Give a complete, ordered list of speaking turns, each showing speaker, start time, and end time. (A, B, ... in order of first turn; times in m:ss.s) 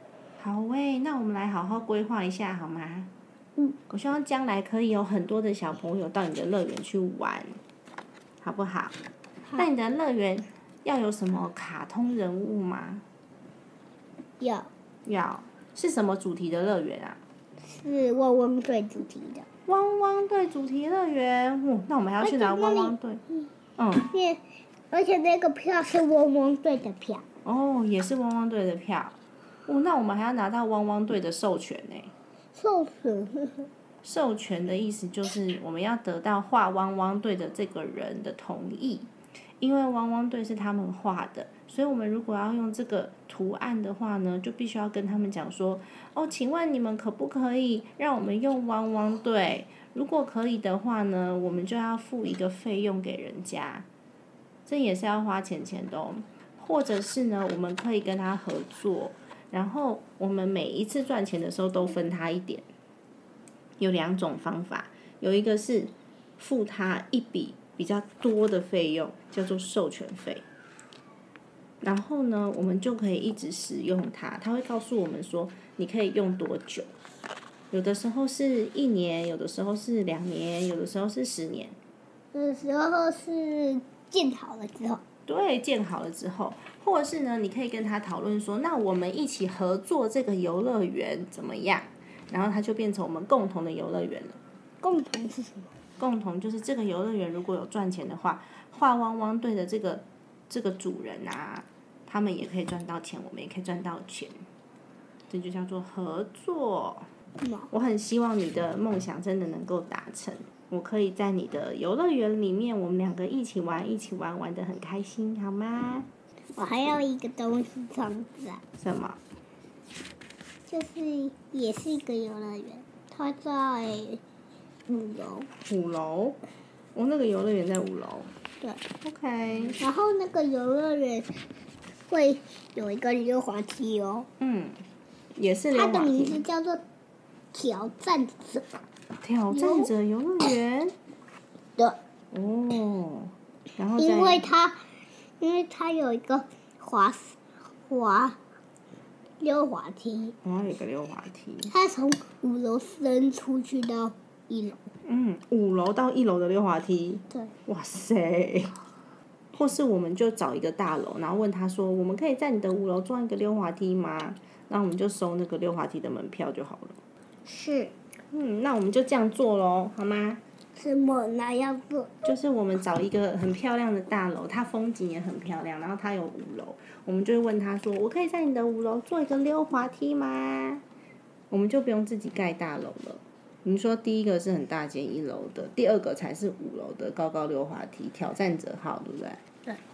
0:00.4-0:03.1 A
0:03.9-0:07.6 A
0:08.4-0:09.0 A
0:09.6-0:13.0 A
0:14.4-0:14.7 B
0:15.0-0:17.2 A
0:17.6-0:19.4 B
0:19.7-0:23.2 A
0:22.2-0:23.5 B
0:23.8-0:24.1 A
0:24.1-0:27.2 B
0:27.4-0:32.1 A
0:32.5-0:33.7 B
0:34.0-0:53.9 A
0:54.6-1:02.7 A
1:03.8-1:10.4 A
1:11.8-1:16.9 A
1:17.7-1:21.8 A
1:22.3-1:25.0 B
1:25.3-1:34.4 A
1:34.8-1:35.7 B
1:36.0-1:44.4 A
1:45.3-1:47.1 A
1:47.4-1:47.7 B
1:47.7-1:56.1 A
1:56.5-1:58.6 B
1:58.8-1:59.2 A
2:00.7-2:04.2 B
2:04.9-2:05.5 B
2:05.6-2:06.4 A
2:06.9-2:08.3 A
2:09.0-2:09.8 A
2:09.8-2:11.3 B
2:12.1-2:14.3 B
2:14.4-2:14.8 A
2:15.3-2:16.4 A
2:15.7-2:16.8 B
2:17.5-2:18.7 B
2:19.2-2:20.9 A
2:19.5-2:19.9 B
2:22.3-2:24.5 A
2:24.0-2:24.8 B
2:25.4-2:28.4 B
2:29.4-2:30.4 B
2:30.4-2:31.7 A
2:31.7-2:34.8 B
2:35.0-2:38.8 A
2:39.5-2:47.0 A
2:47.4-2:47.9 B
2:48.3-2:50.4 A
2:50.7-2:52.3 B
2:52.2-3:00.8 A
3:01.5-3:09.4 A